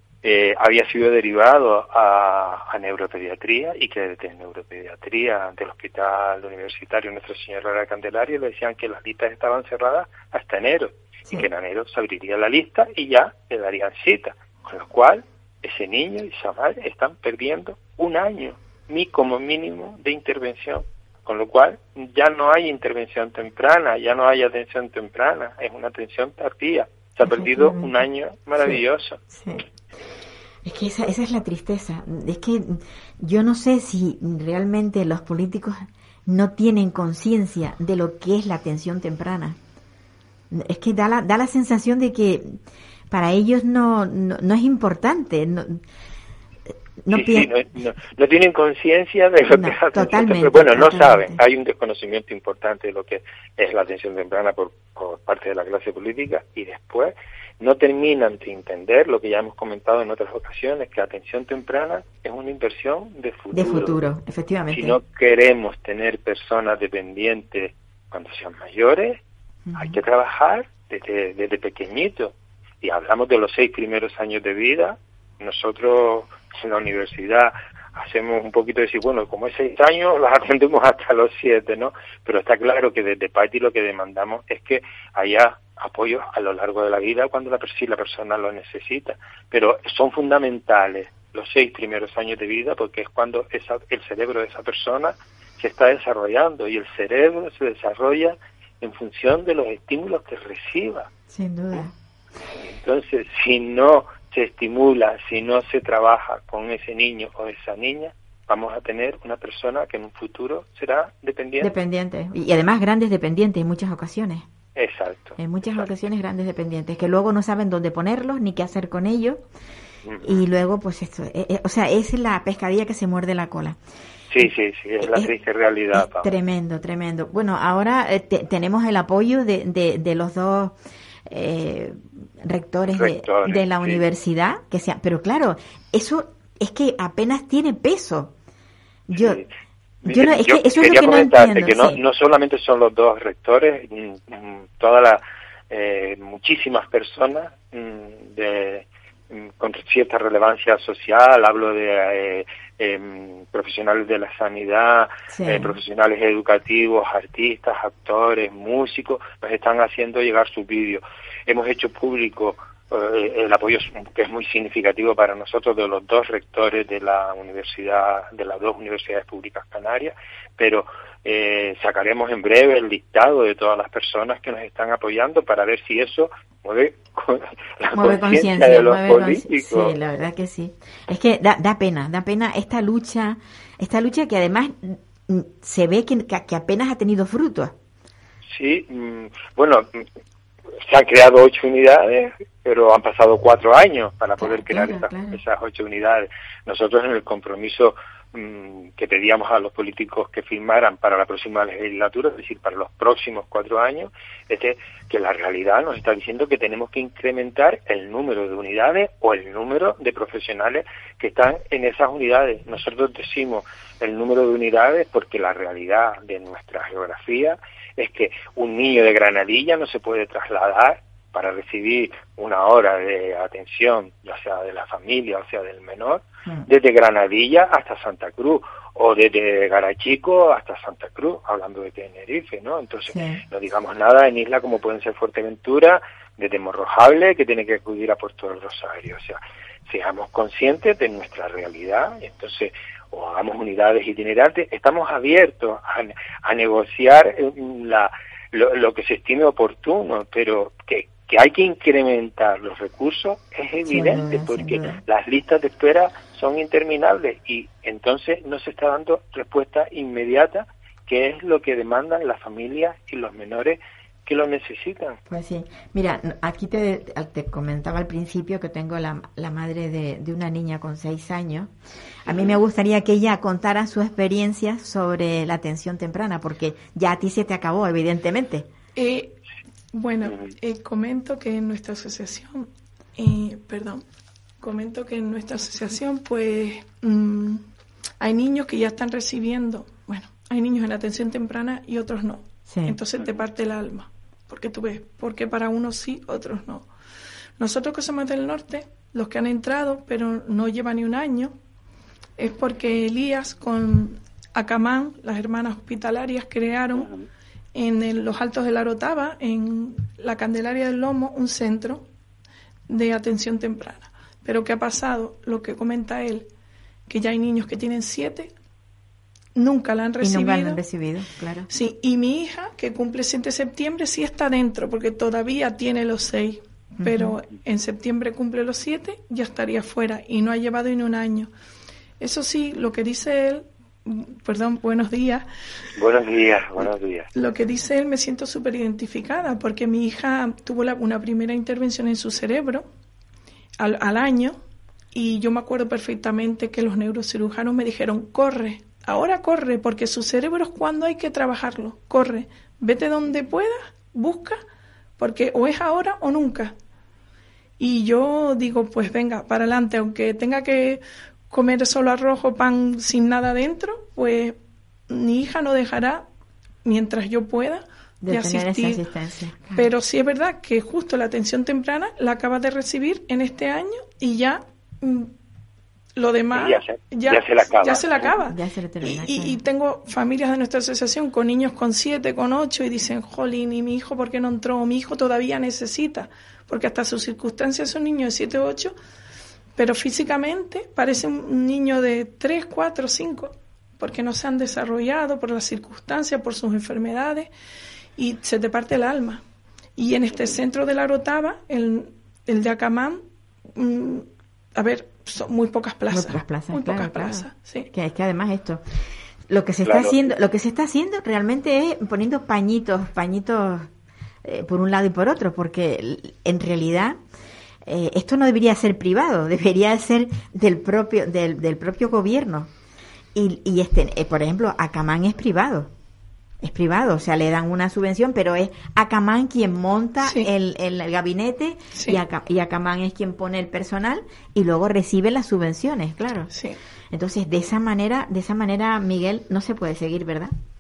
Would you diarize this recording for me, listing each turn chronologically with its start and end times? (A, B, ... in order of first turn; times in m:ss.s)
0:00.2-0:29.2 A
0:27.3-0:27.9 B
0:29.3-0:29.7 B
0:30.6-0:39.6 B
0:40.5-0:42.6 B
0:43.1-0:45.8 B
0:47.0-0:47.5 B
0:47.1-1:04.0 A
0:49.5-0:51.4 B
1:03.5-1:05.0 B
1:04.7-1:09.2 A
1:09.7-1:10.0 B
1:09.8-1:41.1 A
1:41.3-1:41.9 B
1:42.6-1:51.7 A
1:51.6-1:54.5 B
1:54.8-1:55.8 A
1:55.4-1:59.4 B
2:00.1-2:00.4 A
2:00.2-2:03.8 B
2:04.3-2:06.4 A
2:05.0-2:05.3 B
2:05.9-2:18.3 B
2:12.9-2:14.0 A
2:19.1-2:19.4 B
2:19.2-2:19.5 A
2:20.0-3:00.0 A
2:20.0-2:22.0 B
2:35.3-2:35.8 B
2:57.9-3:07.8 B
3:08.5-3:10.0 A
3:10.8-4:25.2 A
3:14.4-3:15.4 B
3:53.1-3:53.4 B
4:13.9-4:15.0 B
4:25.3-4:31.7 B
4:32.2-4:38.7 B
4:39.0-4:39.4 C
4:39.9-4:44.0 C
4:40.2-4:40.5 A
4:44.6-4:47.6 C
4:48.2-4:56.9 C
4:52.7-4:53.0 B
4:57.6-5:01.5 C
5:02.4-5:07.1 C
5:07.8-5:12.0 C
5:12.9-5:16.5 C
5:17.1-5:18.5 C
5:19.6-5:20.8 C
5:20.2-5:21.7 B
5:21.7-5:31.5 C
5:27.0-5:27.4 B
5:32.2-5:35.5 C
5:36.0-5:37.3 A
5:37.3-5:42.9 C
5:43.8-5:44.6 C
5:45.1-5:54.6 C
5:55.2-5:56.8 C
5:57.8-6:04.6 C
6:05.1-6:06.2 C
6:06.8-6:09.0 C
6:08.2-6:09.9 B
6:09.7-6:15.3 C
6:16.2-6:28.9 C
6:16.5-6:18.3 A
6:18.3-6:19.6 B
6:29.8-6:37.5 C
6:38.2-6:39.4 C
6:40.0-6:43.2 C
6:43.8-6:47.9 C
6:46.1-6:48.8 B
6:49.5-6:53.9 B
6:49.8-6:50.3 A
6:54.4-6:57.2 B
6:57.9-7:02.7 B
7:03.3-7:05.9 B
7:06.6-7:16.5 B
7:10.2-7:10.5 C
7:11.9-7:12.2 C
7:16.5-7:16.8 C
7:17.1-7:20.5 B